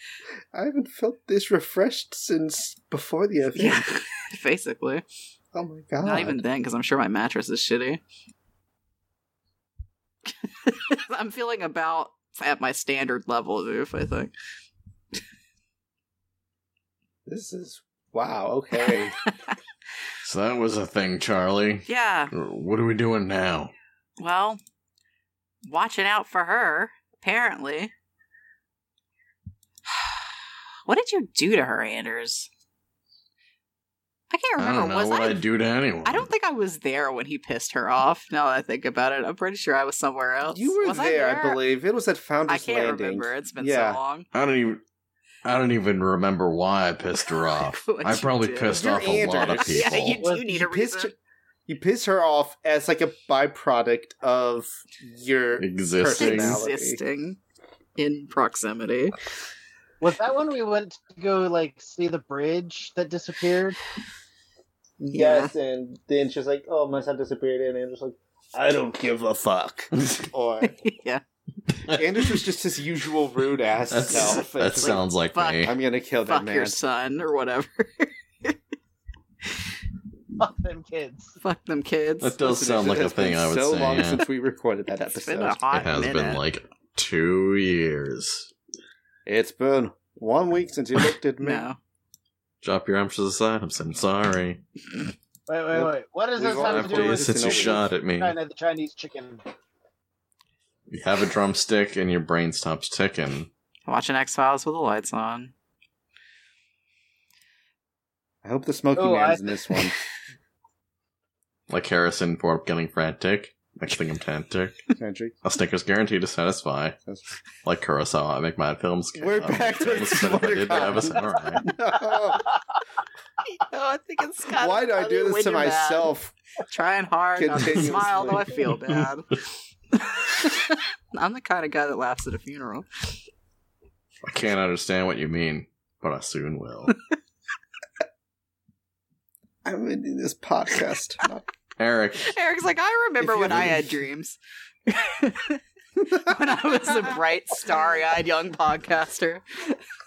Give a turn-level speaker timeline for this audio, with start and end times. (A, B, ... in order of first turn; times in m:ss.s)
0:00.5-0:03.9 A
0:03.6-0:05.0 B
0:05.5-0:06.4 A
0:06.0-0:08.0 B
0:10.4-0:14.3 B
0:17.3-0:19.2 A
0:18.9-0:19.6 B
0:20.2-0:23.7 C
0:21.9-0:22.3 B
0:24.2-0:24.6 B
0:25.6-0:27.9 B
0:29.9-0:30.3 B
0:30.9-0:32.5 B
0:34.3-0:35.4 B
0:34.6-0:36.3 C
0:36.0-0:41.6 B
0:40.5-0:44.0 A
0:42.5-0:44.3 B
0:44.3-0:44.8 C
0:45.4-0:50.2 C
0:47.5-0:49.0 B
0:48.7-0:51.2 A
0:49.6-0:51.1 B
0:51.7-0:57.0 A
0:55.6-0:56.6 C
0:56.2-0:57.4 B
0:58.0-0:59.2 B
1:00.0-1:03.8 D
1:05.0-1:10.8 A
1:05.1-1:05.5 B
1:10.6-1:11.2 B
1:11.9-1:15.0 A
1:13.9-1:15.7 C
1:15.3-1:15.7 B
1:15.6-1:16.8 A
1:16.3-1:18.6 B
1:20.4-1:21.4 D
1:21.4-1:22.4 B
1:22.2-1:24.2 C
1:22.4-1:25.6 A
1:25.0-1:26.4 B
1:25.7-1:28.5 C
1:29.3-1:31.7 A
1:31.4-1:31.8 B
1:32.6-1:34.6 C
1:35.5-1:39.4 D
1:35.7-1:37.9 A
1:36.5-1:38.4 C
1:40.9-1:43.5 C
1:43.9-1:45.5 B
1:48.4-1:50.0 A
1:49.0-1:49.6 D
1:51.7-1:54.8 C
1:55.0-1:55.4 A
1:55.4-1:57.0 C
1:57.6-2:01.7 C
1:59.2-2:02.5 A
2:03.5-2:06.1 B
2:04.6-2:06.3 A
2:06.7-2:09.3 B
2:07.4-2:08.6 A
2:10.0-2:12.9 B
2:14.2-2:16.9 C
2:19.6-2:21.5 A
2:21.8-2:22.3 C
2:22.2-2:29.8 B
2:23.2-2:23.9 A